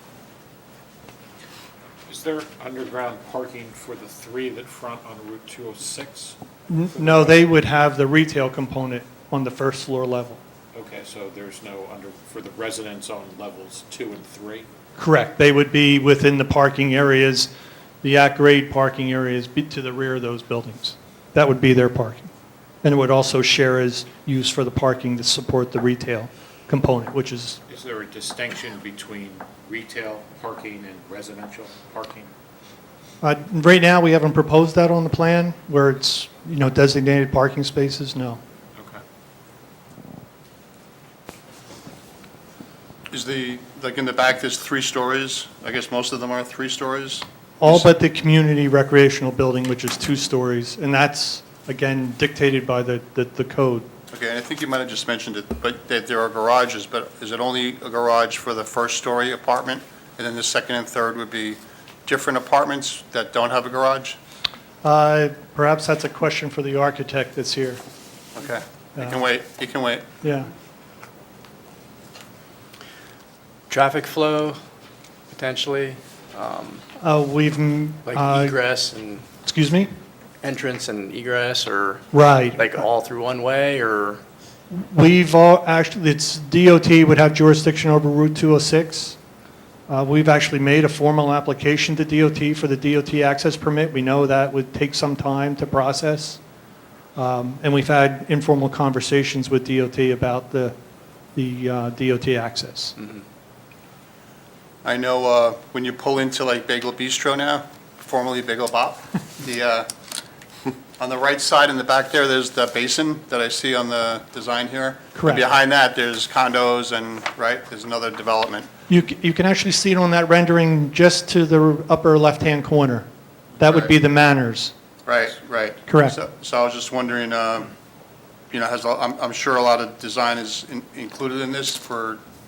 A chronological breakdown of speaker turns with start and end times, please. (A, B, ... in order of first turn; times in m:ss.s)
0:02.0-0:06.4 A
0:06.7-0:10.4 B
0:06.9-0:07.5 A
0:10.7-0:14.7 A
0:15.0-0:17.5 B
0:18.0-0:22.3 B
0:22.8-0:27.6 B
0:27.7-0:32.3 A
0:33.2-0:38.4 B
0:43.1-0:47.9 C
0:47.6-0:53.9 B
0:54.1-1:04.2 C
1:04.8-1:07.8 B
1:08.3-1:10.1 C
1:10.2-1:10.5 B
1:13.7-1:14.6 D
1:15.3-1:16.8 D
1:17.0-1:18.6 B
1:18.0-1:19.2 D
1:19.4-1:19.9 B
1:20.4-1:24.2 D
1:22.1-1:22.6 B
1:24.7-1:29.2 B
1:29.9-1:36.4 B
1:37.2-1:40.7 B
1:41.3-1:43.0 B
1:44.8-1:49.9 C
1:51.0-1:58.7 C
1:55.1-1:55.4 B
1:58.9-2:03.1 B
2:03.6-2:04.7 B
2:03.6-2:03.9 C
2:05.0-2:07.7 C
2:05.9-2:06.2 B
2:08.5-2:12.2 C